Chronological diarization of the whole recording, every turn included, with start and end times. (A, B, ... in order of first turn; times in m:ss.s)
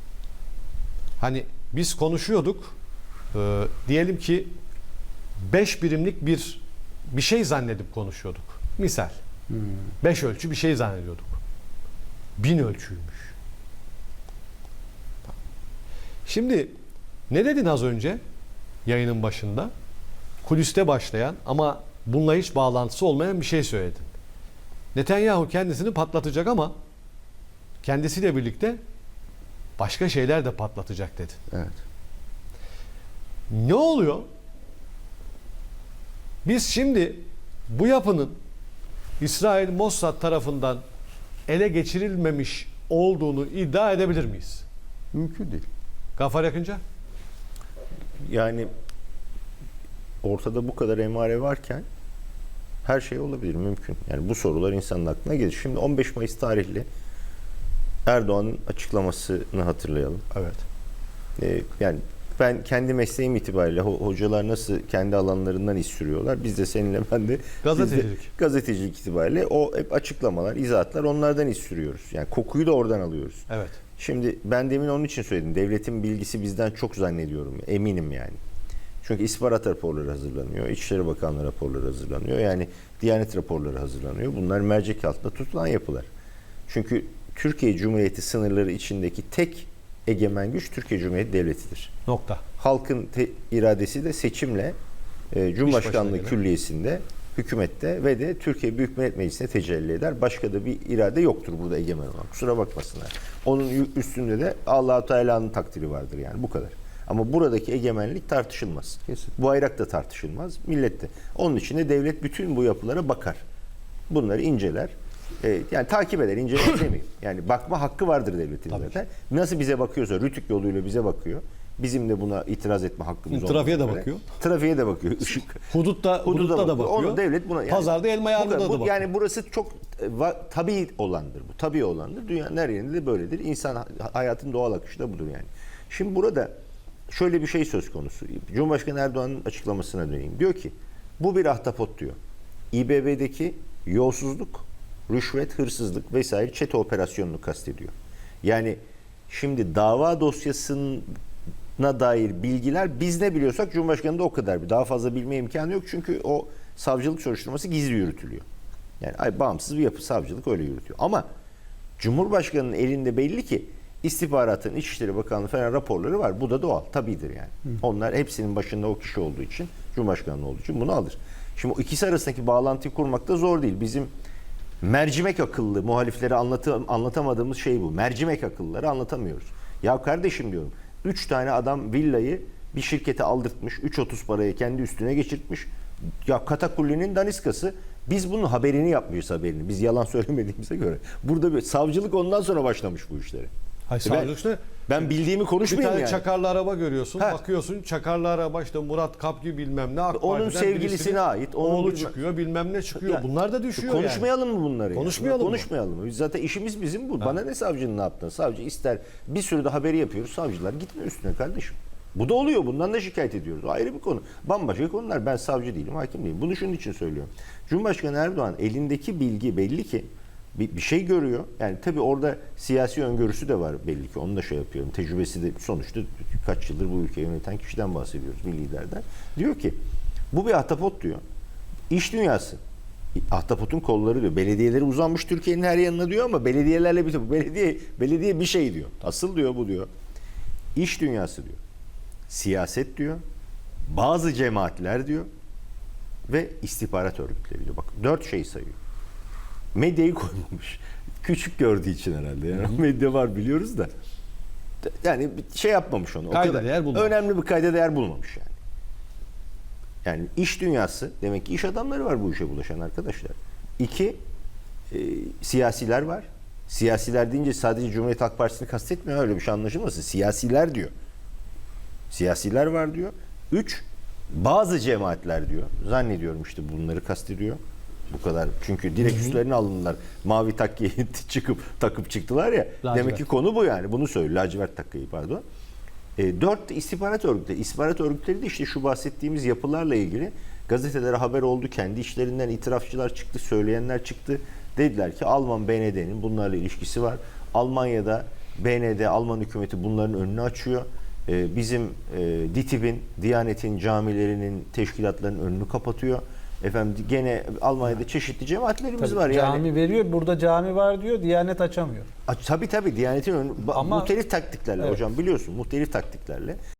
0:01.2-0:02.8 A
0:03.3-0:04.5 A
0:05.4-0:09.2 A
0:10.0-0:11.4 A
0:12.4-0:13.3 A
0:16.2-0:16.7 A
0:17.3-0:18.2 A
0:18.8-0:19.7 A
0:20.4-0:24.1 A
0:24.9-0:26.7 A
0:27.8-0:28.8 A
0:29.8-0:31.4 A
0:33.5-0:34.3 A
0:36.4-0:38.4 A
0:39.2-0:40.8 A
0:41.5-0:44.6 A
0:45.1-0:45.6 B
0:46.2-0:46.8 A
0:48.2-0:48.7 B
0:50.2-0:51.8 B
0:52.8-0:56.8 B
0:58.0-1:00.3 B
1:00.3-1:00.6 A
1:01.4-1:13.4 B
1:07.6-1:08.3 A
1:13.5-1:13.8 A
1:14.0-1:18.4 B
1:19.0-1:26.1 B
1:26.7-1:31.9 B
1:32.1-1:32.4 A
1:32.6-1:34.8 B
1:35.3-1:53.4 B
1:35.6-1:36.4 A
1:54.1-2:05.7 B
2:03.3-2:04.2 A
2:05.6-2:09.0 A
2:06.2-2:16.5 B
2:17.1-2:22.2 B
2:22.7-2:28.8 B
2:29.3-2:31.1 B
2:31.8-2:38.4 B
2:39.0-2:41.2 B
2:42.0-2:54.1 B
2:54.8-3:05.7 B
3:06.2-3:13.5 B
3:13.9-3:14.6 A
3:14.0-3:14.3 B
3:14.9-3:16.2 B
3:15.7-3:24.3 A
3:17.2-3:17.4 B
3:20.1-3:22.2 B
3:22.9-3:49.8 B
3:24.9-3:25.7 A
3:50.3-3:51.2 B
3:51.9-3:52.6 B
3:53.2-3:59.9 B
4:00.8-4:01.6 B
4:02.3-4:03.2 B
4:03.9-4:05.3 B
4:06.3-4:08.8 B
4:09.7-4:13.9 B
4:14.8-4:18.5 B
4:16.3-4:17.2 A
4:20.0-4:24.2 B
4:24.9-4:30.9 B
4:32.1-4:45.4 B
4:39.1-4:39.4 A
4:42.8-4:43.2 A
4:46.2-5:09.7 B
5:09.0-5:12.1 C
5:12.3-5:16.6 B
5:13.7-5:14.1 C